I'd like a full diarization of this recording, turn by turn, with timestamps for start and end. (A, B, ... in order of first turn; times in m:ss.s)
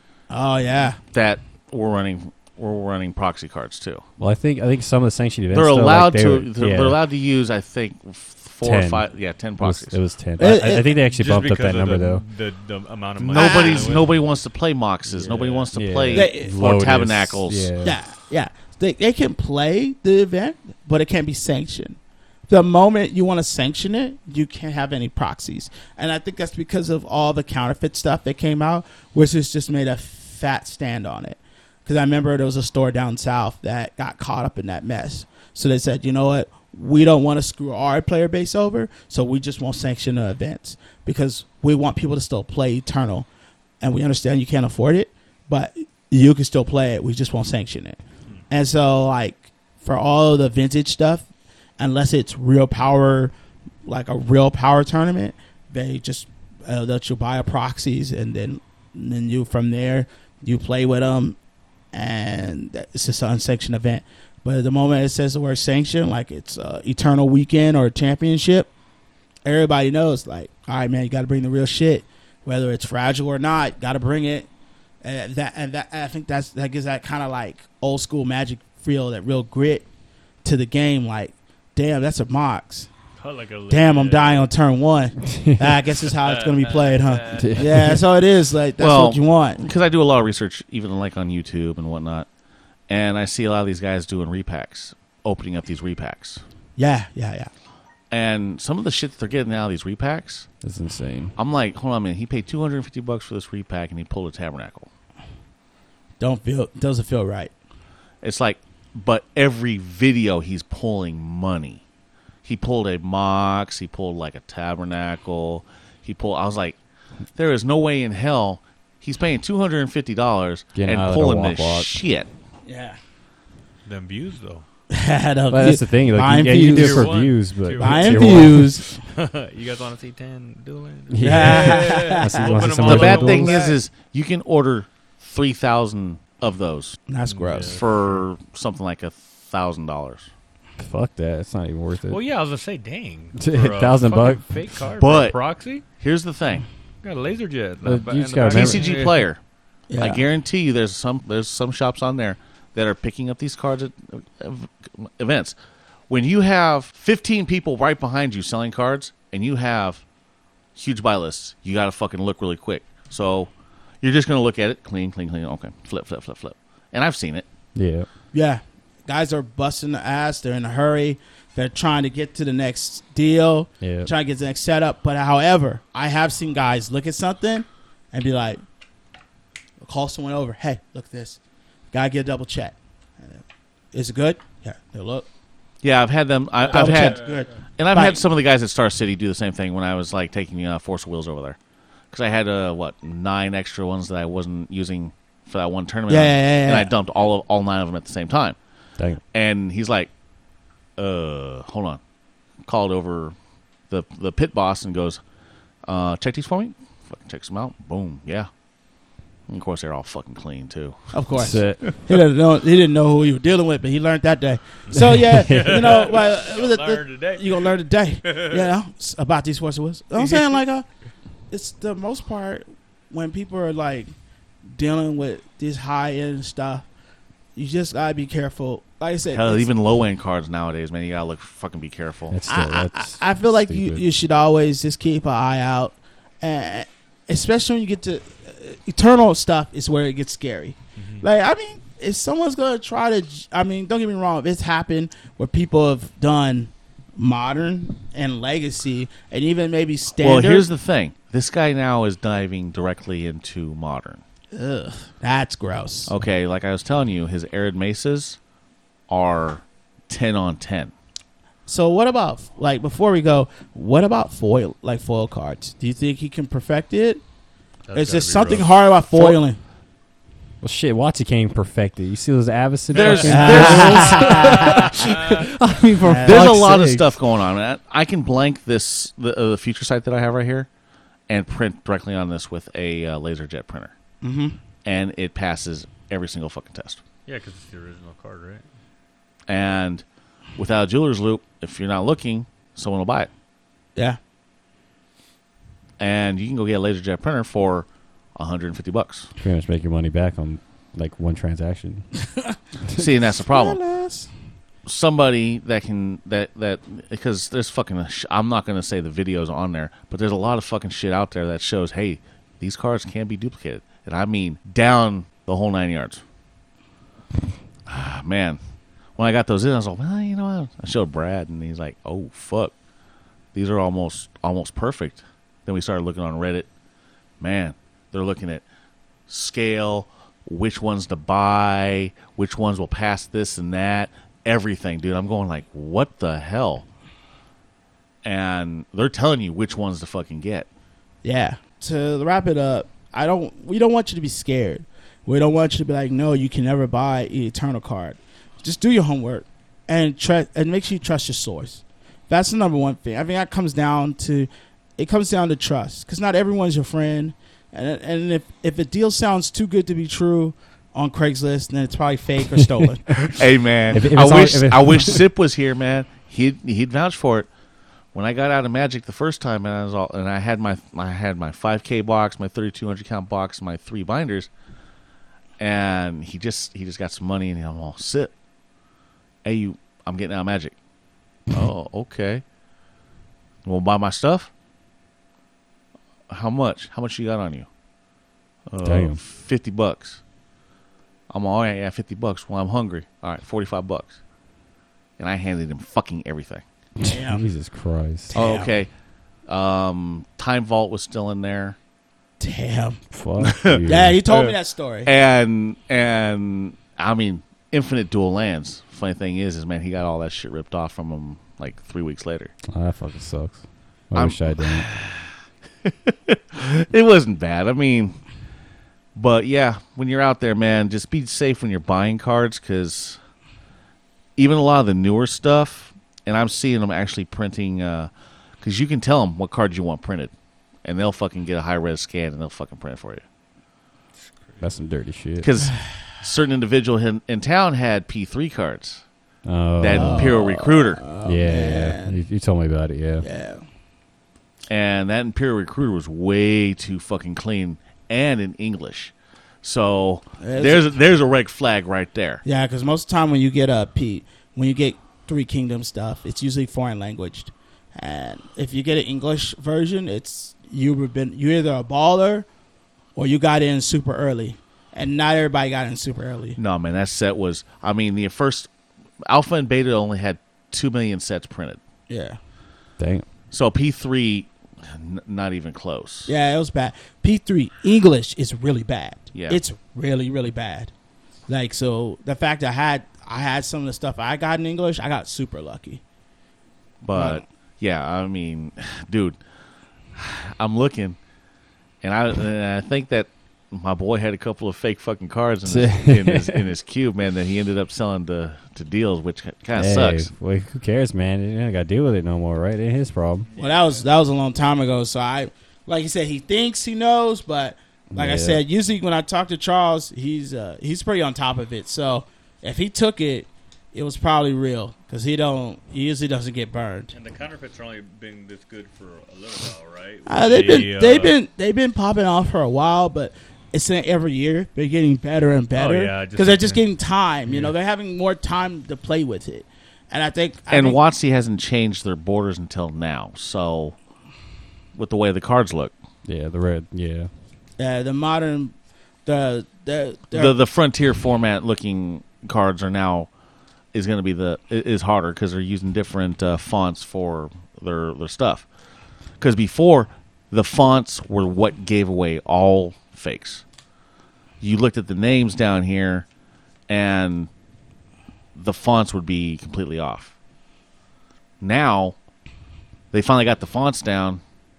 0:00.3-0:01.0 A
0:01.1-0:04.0 B
0:04.2-0:07.0 C
0:05.5-0:10.0 B
0:08.6-0:09.0 C
0:09.6-0:12.2 C
0:10.4-0:10.9 A
0:10.8-0:14.3 D
0:13.2-0:17.7 B
0:13.3-0:14.0 A
0:15.0-0:15.7 D
0:15.7-0:18.0 C
0:16.1-0:16.6 A
0:17.8-0:43.3 A
0:43.8-0:48.0 A
0:48.5-0:51.2 A
0:51.8-0:53.3 A
0:53.8-1:01.4 A
1:01.9-1:08.7 A
1:09.4-1:14.5 A
1:15.0-1:19.8 A
1:20.4-1:22.9 A
1:23.2-1:24.5 D
1:23.7-1:29.6 A
1:26.0-1:27.7 D
1:27.3-1:28.0 C
1:28.8-1:32.3 B
1:32.9-1:36.4 B
1:36.8-1:37.5 A
1:38.1-1:40.5 B
1:40.6-1:41.3 C
1:41.4-1:44.9 B
1:46.2-1:47.5 A
1:48.2-1:51.8 B
1:52.4-1:56.8 B
1:57.3-2:02.3 B
2:00.7-2:02.0 C
2:02.6-2:03.0 A
2:03.8-2:04.6 D
2:04.9-2:07.2 A
2:05.5-2:08.6 C
2:06.6-2:13.7 D
2:07.8-2:09.0 A
2:11.1-2:13.6 C
2:11.2-2:13.0 A
2:12.8-2:17.0 B
2:17.1-2:17.8 A
2:17.2-2:18.2 D
2:17.6-2:20.3 B
2:20.8-2:22.2 C
2:22.1-2:25.8 D
2:23.4-2:24.4 C
2:25.0-2:25.4 B
2:26.0-2:26.6 B
2:27.0-2:29.2 D
2:27.8-2:29.1 C
2:28.4-2:29.4 B
2:29.9-2:30.2 A
2:30.0-2:35.6 B
2:36.1-2:40.0 B
2:40.7-2:47.4 B
2:47.7-2:48.1 C
2:48.3-2:58.6 A
2:53.8-2:54.1 C
2:59.8-3:01.4 A
3:01.9-3:05.3 A
3:05.8-3:07.2 B
3:06.6-3:08.2 A
3:06.7-3:07.5 D
3:07.8-3:11.6 B
3:12.1-3:18.6 B
3:16.1-3:16.9 A
3:19.3-3:20.1 B
3:21.0-3:22.0 B
3:22.6-3:23.3 B
3:23.9-3:25.2 B
3:25.8-3:28.5 B
3:29.5-3:31.1 B
3:31.1-3:40.8 A
3:31.3-3:32.0 C
3:34.9-3:38.7 D
3:34.9-3:36.0 C
3:40.2-3:40.6 D
3:41.5-3:44.1 A
3:44.7-3:46.8 A
3:47.6-3:49.7 A
3:49.3-3:52.4 B
3:52.3-3:54.0 C
3:52.5-4:10.7 A
4:01.0-4:01.2 D
4:10.2-4:14.2 B
4:14.5-4:16.1 A
4:16.1-4:18.4 B
4:19.1-4:20.9 B
4:21.6-4:27.2 A
4:27.9-4:28.7 D
4:27.9-4:29.6 A
4:30.6-4:37.1 C
4:32.9-4:35.4 D
4:32.9-4:34.6 B
4:33.3-4:35.1 A
4:36.0-4:36.5 A
4:36.2-4:40.7 B
4:41.3-4:43.9 B
4:44.2-4:44.6 A
4:44.8-4:47.0 B
4:47.2-4:48.6 D
4:49.5-4:50.0 B
4:50.6-4:53.3 B
4:56.0-4:59.3 B
4:59.4-5:02.1 C
5:02.9-5:03.8 B
5:02.9-5:04.3 A
5:04.8-5:16.2 B
5:17.8-5:18.6 B
5:19.2-5:22.7 B
5:23.5-5:26.7 B
5:27.4-5:28.6 B
5:29.3-5:36.8 B
5:38.2-5:40.7 B
5:41.2-6:03.4 A
6:03.4-6:07.5 B
6:03.9-6:05.2 C
6:08.1-6:14.5 B
6:15.6-6:18.3 B
6:19.4-6:20.7 B
6:21.5-6:22.4 B
6:23.6-6:24.5 B
6:26.3-6:27.7 B
6:28.7-6:30.2 B
6:28.8-6:29.2 C
6:31.3-6:34.2 B
6:35.2-6:36.6 B
6:37.0-6:38.3 C
6:37.1-6:37.4 A
6:38.3-6:38.7 A
6:38.3-6:38.9 B
6:39.5-6:41.8 B
6:42.4-6:43.0 A
6:43.1-6:44.2 C
6:43.4-6:44.5 B
6:43.9-6:45.1 A
6:45.0-6:52.5 B
6:52.7-6:54.9 C
6:54.1-6:55.3 B
6:55.8-6:58.2 B
6:59.1-7:03.2 B
7:04.4-7:08.1 B
7:08.6-7:10.3 B
7:10.8-7:13.2 B
7:14.2-7:14.8 D
7:14.6-7:15.5 C
7:15.4-7:19.0 B
7:19.4-7:20.3 C
7:19.8-7:21.0 B
7:19.9-7:22.2 A
7:21.2-7:23.2 C
7:23.2-7:23.6 A
7:24.7-7:32.4 B
7:30.4-7:31.0 A
7:32.4-7:42.4 A
7:43.2-7:46.6 A
7:46.6-7:48.7 B
7:49.3-7:51.8 B
7:52.1-7:52.4 A
7:53.0-7:53.2 C
7:53.5-7:56.3 B
7:56.3-8:00.9 A
7:59.3-7:59.6 B
8:01.5-8:06.0 A
8:07.0-8:09.4 B
8:07.1-8:07.4 A
8:10.1-8:11.2 B
8:12.0-8:20.3 B
8:15.7-8:16.6 C
8:19.7-8:23.5 C
8:23.5-8:24.0 D
8:23.6-8:37.1 A
8:28.1-8:28.6 C
8:37.1-8:41.3 D
8:40.3-8:51.0 A
8:45.7-8:46.8 D
8:47.4-8:47.7 D
8:50.7-8:54.0 B
8:54.9-8:55.9 B
8:56.2-8:57.3 C
8:57.8-8:58.7 A
8:59.2-9:00.6 A
9:00.3-9:03.3 B
9:03.9-9:08.7 B
9:09.4-9:13.6 B
9:14.6-9:16.3 B
9:16.9-9:17.5 B
9:18.5-9:20.3 B
9:21.6-9:22.2 B
9:23.1-9:24.4 B